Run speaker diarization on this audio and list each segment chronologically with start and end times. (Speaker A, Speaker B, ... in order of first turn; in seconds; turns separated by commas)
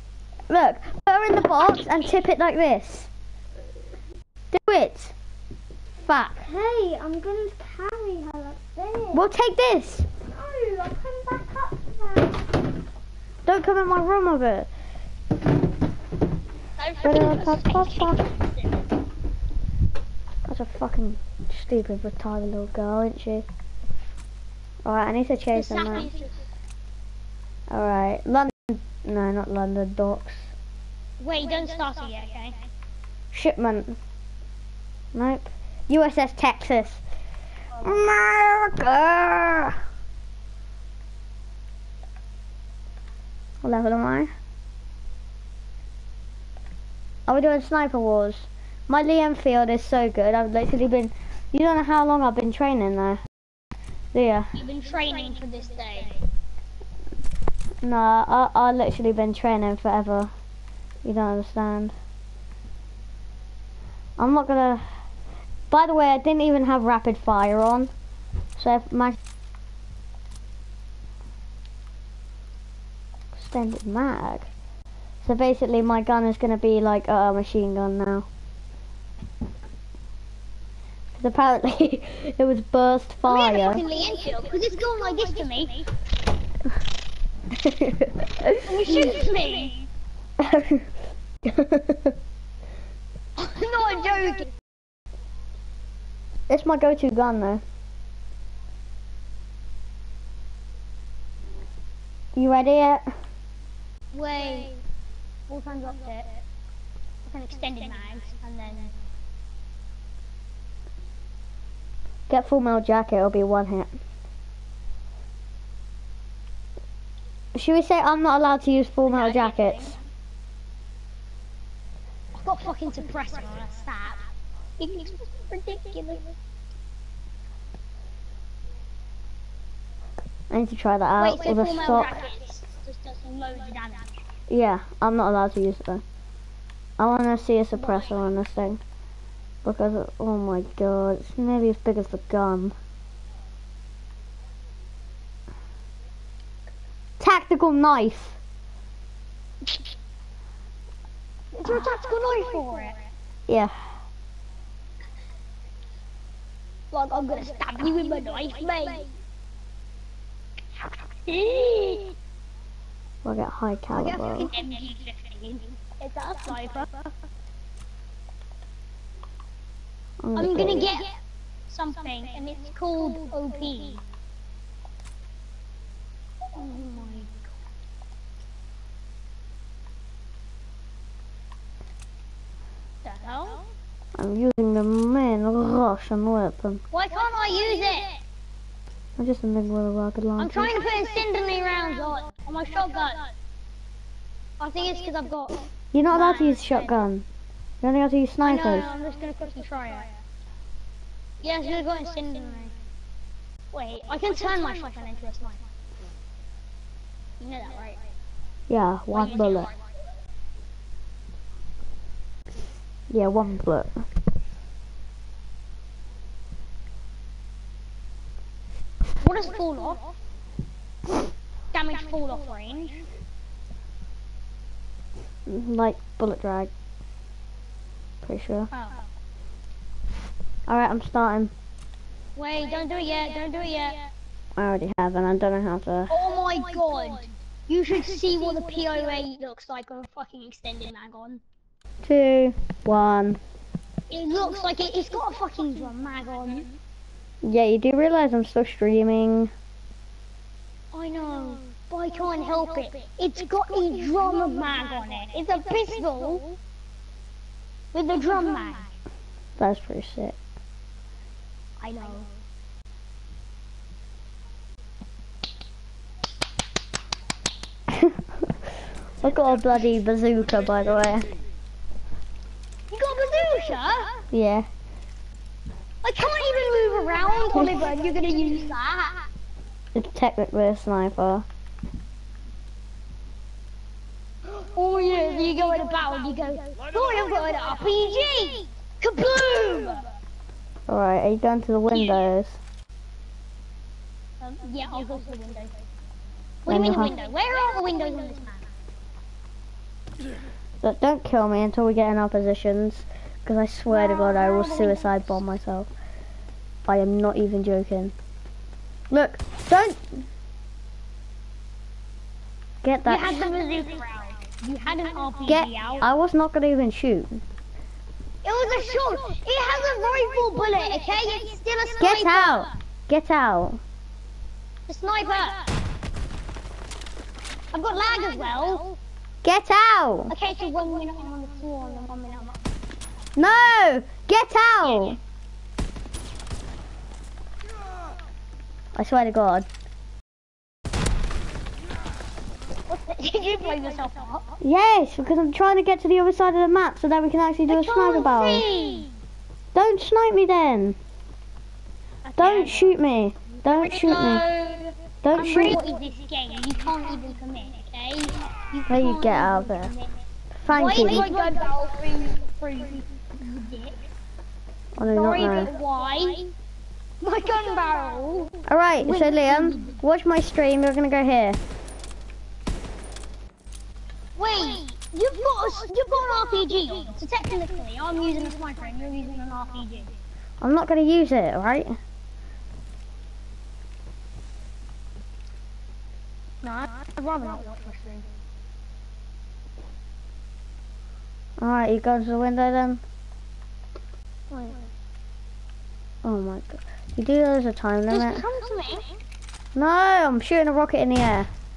Speaker A: 0.5-3.1, Speaker A: 4.5-5.1, Speaker A: 6.0-6.5, Speaker B: 6.5-9.2, Speaker A: 9.1-10.1, Speaker B: 10.2-12.4, Speaker A: 13.4-14.7, Speaker C: 16.8-18.7, Speaker A: 17.0-18.2, Speaker A: 20.5-23.5, Speaker A: 24.9-26.1, Speaker C: 25.6-26.3, Speaker A: 27.7-30.5, Speaker C: 31.2-32.7, Speaker A: 33.3-34.0, Speaker A: 35.1-37.0, Speaker A: 37.8-39.8, Speaker A: 43.6-44.3, Speaker A: 47.3-53.2, Speaker A: 54.1-54.5, Speaker C: 54.6-56.2, Speaker A: 57.8-60.3, Speaker A: 61.0-61.9, Speaker A: 64.2-64.9, Speaker A: 65.7-67.9, Speaker A: 68.6-69.2, Speaker A: 73.4-74.5, Speaker A: 75.2-78.3, Speaker A: 81.2-83.8, Speaker C: 83.3-85.9, Speaker A: 87.6-88.7, Speaker C: 88.7-89.9, Speaker A: 90.4-90.9, Speaker A: 91.5-92.1, Speaker C: 93.4-94.5, Speaker A: 96.5-97.6, Speaker A: 102.4-103.0, Speaker C: 104.1-104.8, Speaker C: 105.5-106.4, Speaker C: 107.3-108.9, Speaker A: 112.3-114.0, Speaker A: 117.5-120.0, Speaker C: 119.1-120.0, Speaker C: 122.3-124.2, Speaker C: 124.8-126.4, Speaker A: 130.5-132.2, Speaker C: 131.2-134.1, Speaker A: 134.5-136.0, Speaker A: 137.0-138.8, Speaker A: 139.6-142.8, Speaker A: 147.2-148.4, Speaker C: 151.5-153.0, Speaker A: 153.5-153.7, Speaker C: 156.9-159.1, Speaker C: 161.3-162.2, Speaker A: 163.2-164.5, Speaker C: 163.9-167.1, Speaker A: 170.2-170.9, Speaker C: 170.4-171.2, Speaker C: 171.7-174.0, Speaker C: 176.5-177.4, Speaker C: 183.0-183.7, Speaker A: 184.2-186.8, Speaker C: 186.9-188.2, Speaker A: 189.2-190.8, Speaker C: 190.4-193.3, Speaker C: 194.6-197.0, Speaker A: 195.9-197.2, Speaker A: 197.8-198.9, Speaker C: 198.4-200.1, Speaker C: 201.4-202.8, Speaker C: 203.7-205.6, Speaker C: 207.4-208.0, Speaker A: 208.7-209.7, Speaker C: 209.1-209.8, Speaker A: 213.1-214.0, Speaker C: 219.2-220.1, Speaker C: 221.7-223.1, Speaker A: 225.5-226.7, Speaker A: 228.2-228.7, Speaker C: 228.7-229.0, Speaker A: 230.7-231.5, Speaker C: 232.3-234.1, Speaker A: 234.6-236.2, Speaker C: 236.1-241.4, Speaker A: 242.0-243.4, Speaker C: 244.1-246.7, Speaker A: 247.4-249.5, Speaker C: 250.9-256.6, Speaker C: 257.9-258.9, Speaker A: 259.6-260.4, Speaker C: 261.8-262.3, Speaker A: 267.9-268.2, Speaker A: 269.2-271.3, Speaker C: 272.9-274.2, Speaker A: 274.3-274.7, Speaker C: 276.0-279.3, Speaker A: 279.9-281.5, Speaker C: 284.5-290.1, Speaker A: 290.9-292.6, Speaker C: 291.9-292.2, Speaker C: 294.4-295.8, Speaker C: 296.6-298.6, Speaker A: 296.7-297.1, Speaker A: 300.8-305.9, Speaker C: 303.9-305.2, Speaker A: 306.9-308.1, Speaker A: 309.1-310.1, Speaker A: 312.8-313.4, Speaker C: 313.1-316.1, Speaker A: 315.5-317.4, Speaker C: 318.4-322.7, Speaker A: 322.0-323.8, Speaker C: 324.9-325.7, Speaker C: 327.7-329.0, Speaker A: 329.4-330.3, Speaker C: 330.3-332.6, Speaker A: 333.4-335.2, Speaker A: 338.9-339.7, Speaker C: 342.9-344.5, Speaker A: 344.6-348.7, Speaker C: 347.7-349.1, Speaker A: 349.7-351.0, Speaker C: 352.2-353.0, Speaker A: 352.4-354.5, Speaker C: 353.6-360.1, Speaker A: 355.2-355.8, Speaker A: 358.9-359.9, Speaker A: 360.6-361.2, Speaker C: 360.7-364.0, Speaker A: 365.0-365.7, Speaker C: 365.0-366.5, Speaker C: 367.2-369.9, Speaker A: 368.7-371.6, Speaker C: 374.4-380.1, Speaker A: 380.6-382.0, Speaker C: 386.6-388.3, Speaker A: 391.6-393.0, Speaker C: 394.5-394.8, Speaker A: 396.2-398.5, Speaker C: 398.1-399.2, Speaker A: 399.8-401.5